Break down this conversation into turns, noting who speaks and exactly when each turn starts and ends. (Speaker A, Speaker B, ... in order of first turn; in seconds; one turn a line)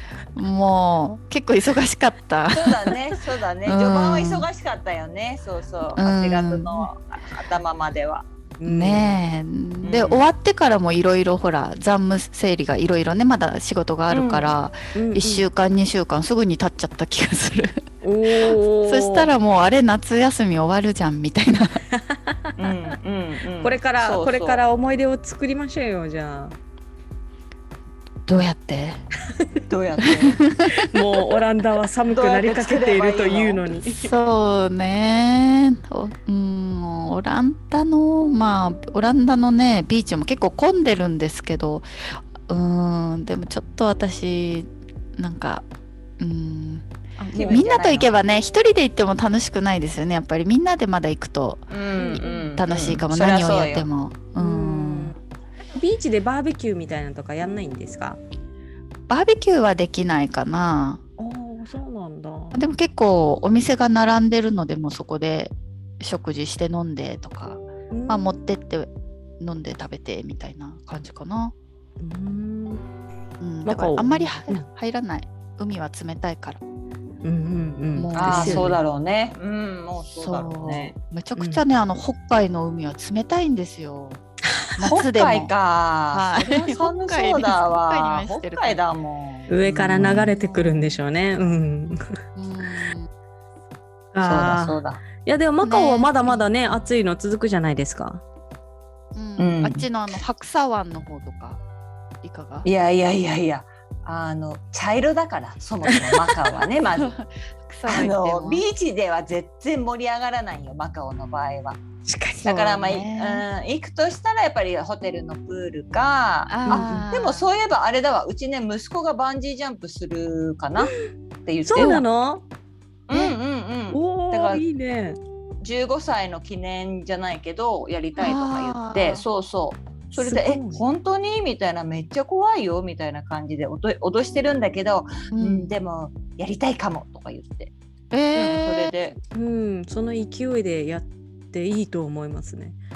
Speaker A: 0.3-3.0
Speaker B: 2.5-8.3
Speaker A: 3.6-4.5
Speaker A: 6.0-6.9
Speaker C: 8.6-9.2
Speaker A: 8.7-21.9
Speaker B: 9.8-10.3
Speaker B: 14.1-14.5
Speaker C: 14.9-15.4
Speaker C: 18.0-19.3
Speaker C: 21.9-22.5
Speaker B: 22.6-24.6
Speaker C: 23.6-26.6
Speaker A: 28.3-29.0
Speaker B: 29.7-30.4
Speaker A: 30.2-30.9
Speaker C: 30.8-34.1
Speaker B: 32.1-33.6
Speaker A: 33.9-45.7
Speaker A: 46.2-55.2
Speaker C: 47.2-47.6
Speaker B: 47.4-48.1
Speaker B: 51.7-53.9
Speaker C: 52.0-52.3
Speaker C: 54.4-55.2
Speaker C: 55.7-58.2
Speaker A: 59.1-61.0
Speaker C: 61.2-62.6
Speaker A: 62.5-68.9
Speaker C: 67.9-68.3
Speaker A: 69.4-71.5
Speaker C: 72.0-72.8
Speaker A: 73.4-76.6
Speaker C: 73.6-74.7
Speaker C: 77.2-78.8
Speaker A: 78.0-78.8
Speaker B: 78.2-81.0
Speaker A: 80.2-84.2
Speaker C: 81.4-81.6
Speaker A: 84.8-85.5
Speaker B: 84.8-90.2
Speaker A: 86.1-88.8
Speaker C: 89.5-92.2
Speaker A: 90.0-91.0
Speaker A: 92.4-93.1
Speaker C: 94.1-98.2
Speaker B: 94.2-95.0
Speaker A: 95.6-96.4
Speaker A: 99.2-101.6
Speaker B: 99.4-99.8
Speaker A: 102.2-102.7
Speaker B: 102.7-107.1
Speaker C: 106.0-106.4
Speaker A: 107.0-108.7
Speaker B: 107.9-111.8
Speaker C: 112.0-112.5
Speaker A: 112.4-113.5
Speaker B: 112.4-121.0
Speaker A: 116.5-117.5
Speaker C: 116.7-117.0
Speaker B: 121.5-122.0
Speaker C: 121.7-122.5
Speaker B: 123.1-124.6
Speaker C: 123.9-125.2
Speaker B: 125.6-137.7
Speaker A: 128.2-129.2
Speaker C: 130.2-130.8
Speaker A: 135.3-135.8
Speaker A: 138.1-138.9
Speaker B: 138.3-139.2
Speaker C: 139.3-142.8